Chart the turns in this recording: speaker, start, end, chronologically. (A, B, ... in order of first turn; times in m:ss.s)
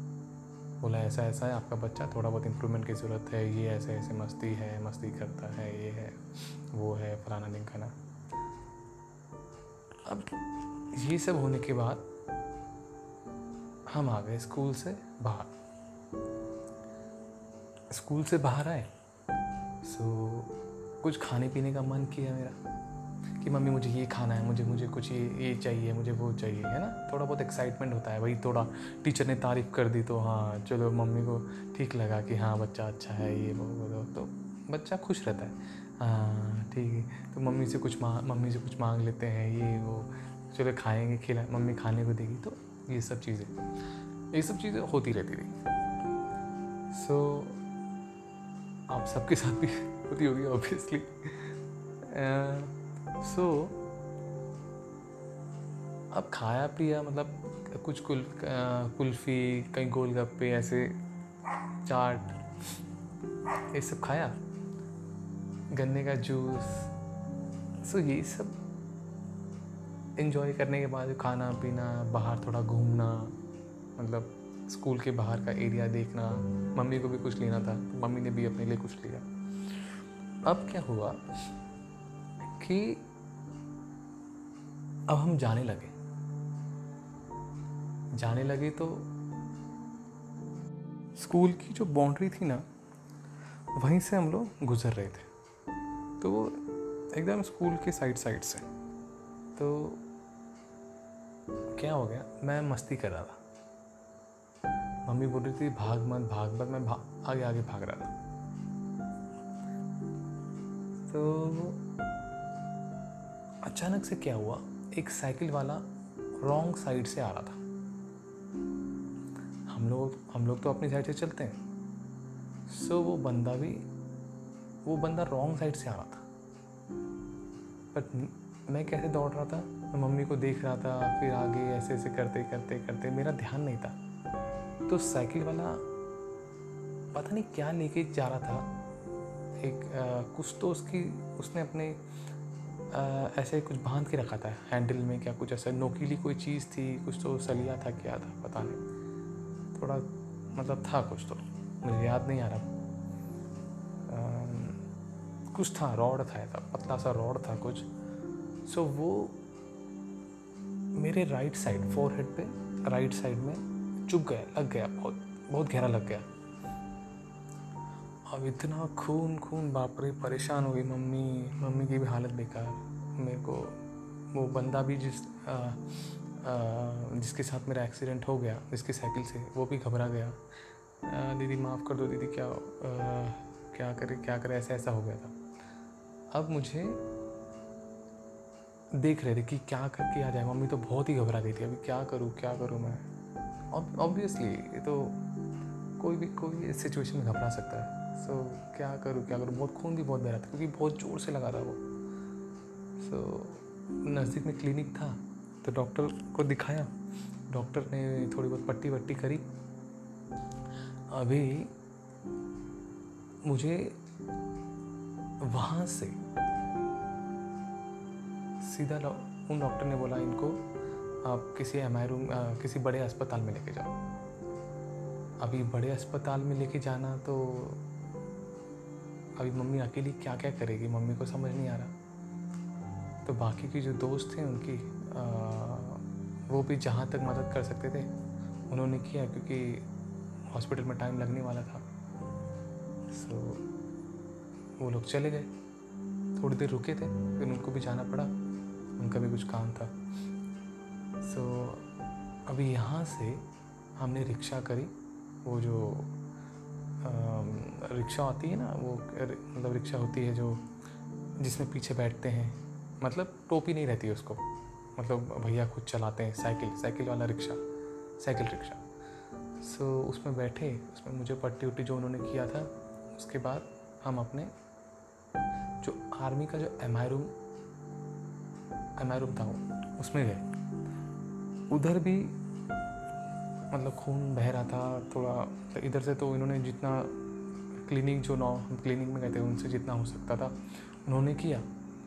0:00.8-0:07.9 A
0:10.0-0:10.3 A
0:10.9-0:12.1 A
0:13.9-0:15.5 A
0:17.9-0:18.9 A
0:19.8-0:22.6 A
0:23.4-0:43.6 A
0:44.3-0:45.5 A
0:46.9-0:47.6 A
0:48.9-0:53.8 A
0:56.1-1:01.0 A
1:01.8-1:02.4 A
1:03.7-1:04.4 A
1:05.7-1:06.9 A
1:07.8-1:08.6 A
1:10.2-1:13.4 A
1:14.0-1:21.2 A
1:22.5-1:23.1 A
1:25.1-1:25.9 A
1:28.2-1:29.1 A
1:31.2-1:32.6 A
1:33.7-1:35.3 A
1:36.2-1:36.6 A
1:37.1-1:38.6 A
1:39.6-1:40.0 A
1:41.7-1:43.4 A
1:45.0-1:48.1 A
1:51.0-1:51.8 A
1:53.6-1:55.8 A
1:56.4-1:57.6 A
1:59.7-2:01.6 A
2:02.7-2:03.9 A
2:04.8-2:06.2 A
2:07.9-2:14.0 A
2:14.9-2:15.8 A
2:17.1-2:18.7 A
2:19.6-2:22.0 A
2:22.9-2:28.8 A
2:29.7-2:32.7 A
2:34.1-2:34.8 A
2:35.5-2:37.9 A
2:38.6-2:39.4 A
2:40.9-2:46.3 A
2:48.3-2:53.8 A
2:54.3-3:00.4 A
3:01.0-3:05.3 A
3:06.3-3:07.0 A
3:08.9-3:13.0 A
3:13.7-3:15.2 A
3:16.0-3:21.8 A
3:23.0-3:26.9 A
3:27.5-3:29.5 A
3:31.1-3:31.7 A
3:33.4-3:34.0 A
3:35.4-3:36.2 A
3:38.6-3:40.6 A
3:41.2-3:43.9 A
3:45.4-3:47.8 A
3:49.4-3:51.9 A
3:53.2-3:58.1 A
3:58.7-3:59.9 A
4:00.5-4:01.8 A
4:03.1-4:03.7 A
4:04.8-4:05.5 A
4:06.4-4:08.3 A
4:09.0-4:09.9 A
4:11.2-4:11.9 A
4:12.5-4:13.4 A
4:14.0-4:14.9 A
4:15.4-4:16.1 A
4:17.0-4:20.7 A
4:21.4-4:27.6 A
4:28.2-4:28.8 A
4:29.6-4:34.5 A
4:35.8-4:37.3 A
4:39.0-4:40.5 A
4:41.7-4:42.4 A
4:43.7-4:47.2 A
4:47.8-4:51.6 A